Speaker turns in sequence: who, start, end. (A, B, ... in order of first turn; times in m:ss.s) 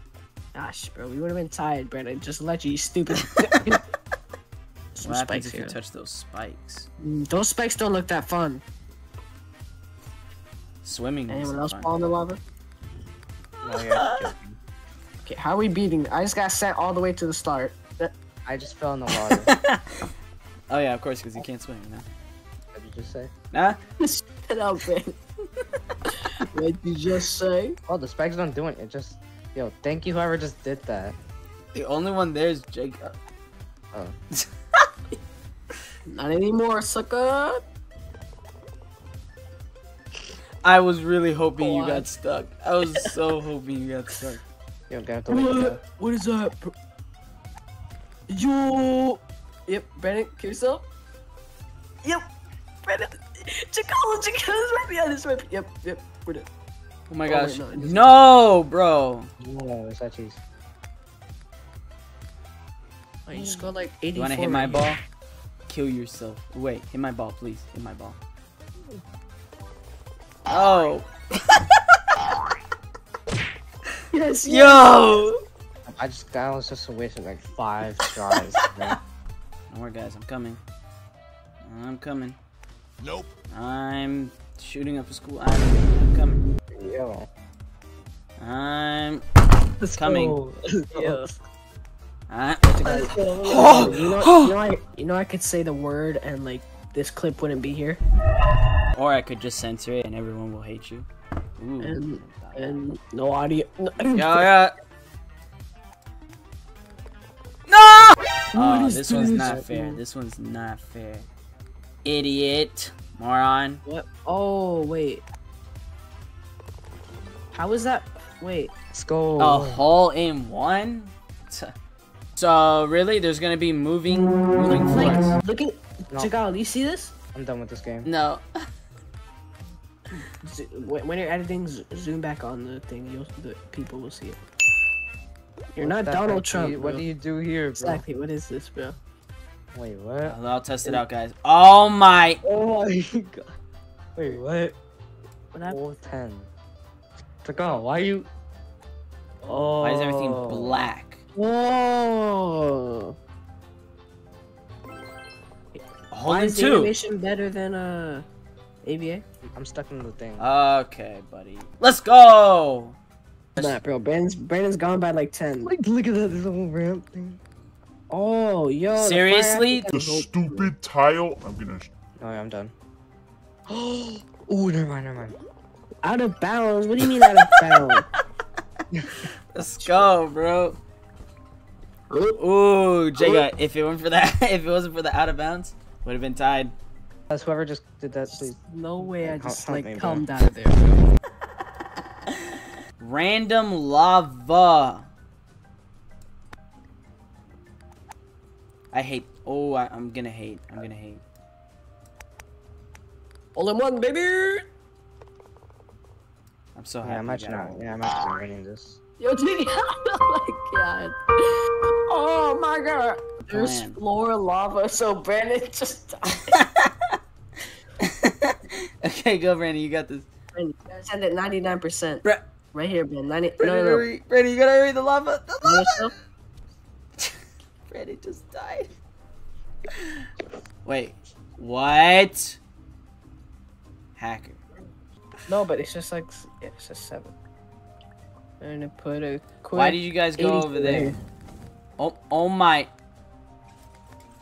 0:00.5-0:03.8 A
0:05.0-0:05.8 A
0:05.0-0:06.9 B
0:07.0-0:08.6 A
0:10.8-0:12.0 B
0:11.3-0:12.4 A
0:13.6-0:14.6 C
0:13.7-0:14.3 A
0:15.2-0:18.1 A
0:18.5-0:19.5 C
0:19.2-0:20.1 B
0:20.7-0:22.1 B
0:22.7-0:23.3 C
0:23.5-0:23.8 B
0:24.0-0:25.2 A
0:26.1-0:27.8 A
0:27.9-0:31.2 C
0:31.7-0:33.2 B
0:36.1-0:37.6 A
0:40.6-0:44.4 B
0:41.6-0:42.1 A
0:44.9-0:45.8 C
0:45.3-0:46.7 A
0:48.3-0:50.8 A
0:52.0-0:52.3 A
0:52.8-0:56.5 A
0:57.1-0:59.3 B
0:57.3-0:58.0 A
0:59.4-1:00.4 C
1:03.3-1:04.9 A
1:03.3-1:03.7 C
1:04.2-1:05.0 B
1:05.7-1:08.2 B
1:10.5-1:11.8 B
1:14.1-1:15.3 A
1:14.4-1:15.4 B
1:15.9-1:19.0 C
1:19.7-1:20.6 B
1:21.6-1:22.4 B
1:23.5-1:26.4 B
1:26.7-1:27.3 C
1:28.4-1:29.2 B
1:29.8-1:31.4 C
1:30.0-1:30.4 B
1:30.9-1:31.3 A
1:32.3-1:34.5 B
1:32.7-1:38.0 A
1:38.9-1:41.1 B
1:41.6-1:42.8 B
1:41.8-1:44.5 A
1:44.1-1:44.7 B
1:47.7-1:51.3 B
1:48.5-1:50.0 A
1:49.1-1:49.6 C
1:52.0-1:53.8 B
1:53.8-1:55.2 A
1:57.5-1:58.7 A
1:58.9-1:59.8 C
1:59.4-2:01.7 B
2:02.4-2:05.4 B
2:04.7-2:07.1 A
2:07.3-2:08.1 C
2:08.0-2:08.4 B
2:10.2-2:14.4 A
2:15.8-2:17.0 A
2:15.8-2:18.0 C
2:17.8-2:19.0 A
2:19.7-2:21.0 C
2:20.3-2:22.4 B
2:22.4-2:23.5 C
2:24.2-2:24.8 C
2:25.6-2:26.5 C
2:27.4-2:28.3 C
2:29.4-2:29.8 A
2:29.4-2:30.9 C
2:29.8-2:31.2 B
2:31.4-2:33.2 A
2:35.8-2:38.2 A
2:36.1-2:36.9 B
2:38.8-2:39.2 A
2:39.5-2:40.5 C
2:40.4-2:43.0 B
2:43.6-2:45.7 A
2:45.6-2:47.4 C
2:48.1-2:50.8 A
2:48.9-2:49.9 B
2:49.9-2:51.9 D
2:52.2-2:52.7 C
2:53.7-2:55.4 C
2:56.0-2:58.0 A
2:59.3-3:00.8 B
2:59.6-3:00.1 A
3:02.1-3:02.4 A
3:02.4-3:06.7 B
3:03.2-3:03.4 A
3:07.3-3:08.6 C
3:08.3-3:11.0 A
3:09.2-3:11.0 C
3:13.0-3:15.1 B
3:18.9-3:21.2 B
3:23.6-3:24.6 A
3:26.8-3:27.8 B
3:27.0-3:29.0 C
3:29.2-3:36.6 A
3:33.4-3:34.0 B
3:36.5-3:37.2 B
3:38.0-3:40.3 B
3:40.5-3:44.1 A
3:43.6-3:46.1 B
3:45.6-3:46.1 A
3:47.9-3:48.9 B
3:49.9-3:50.3 B
3:50.8-3:52.6 B
3:54.2-3:54.6 B
3:55.5-3:57.3 A
3:58.6-4:01.2 A
3:59.7-4:01.2 B
4:02.0-4:02.9 B